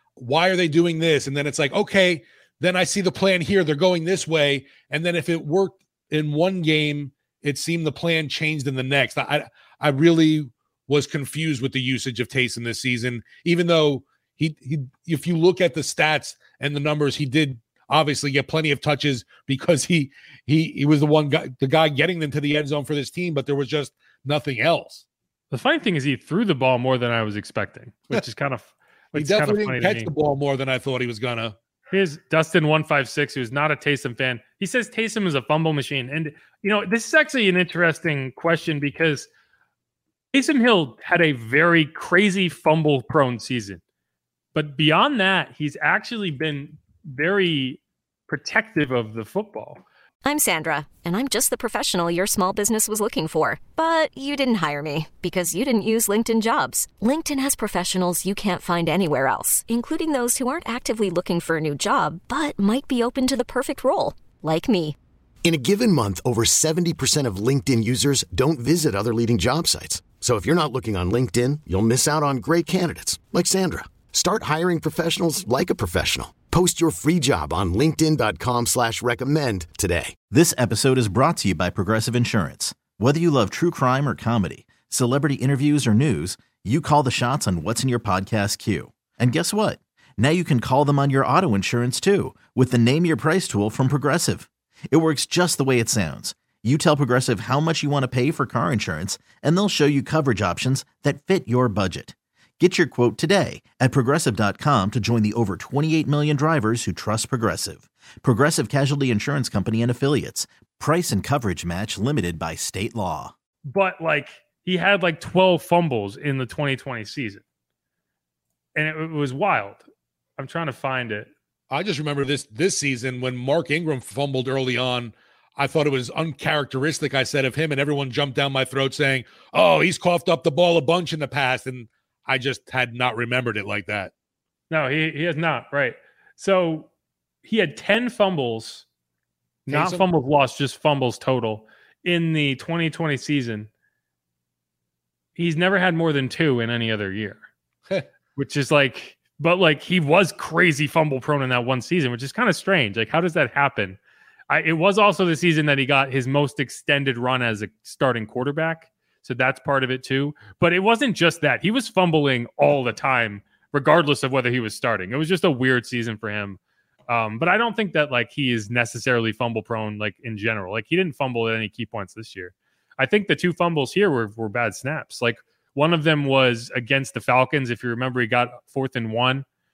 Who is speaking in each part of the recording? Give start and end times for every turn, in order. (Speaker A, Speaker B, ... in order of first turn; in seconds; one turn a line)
Speaker A: 0.2-25.0
Speaker B: 25.5-30.1
Speaker A: 29.1-31.5
Speaker B: 31.9-39.3
Speaker B: 40.3-43.8
Speaker B: 44.5-49.8
Speaker C: 50.2-65.0
Speaker D: 65.4-80.2
Speaker E: 80.3-113.3
Speaker B: 113.7-117.4
Speaker B: 118.8-119.8
Speaker B: 120.4-121.3
Speaker A: 121.7-134.1
Speaker B: 134.7-136.9
Speaker B: 137.4-138.8
Speaker B: 139.7-143.7
Speaker A: 139.7-140.1
Speaker B: 145.3-147.4
Speaker B: 148.3-154.0
Speaker B: 154.5-179.4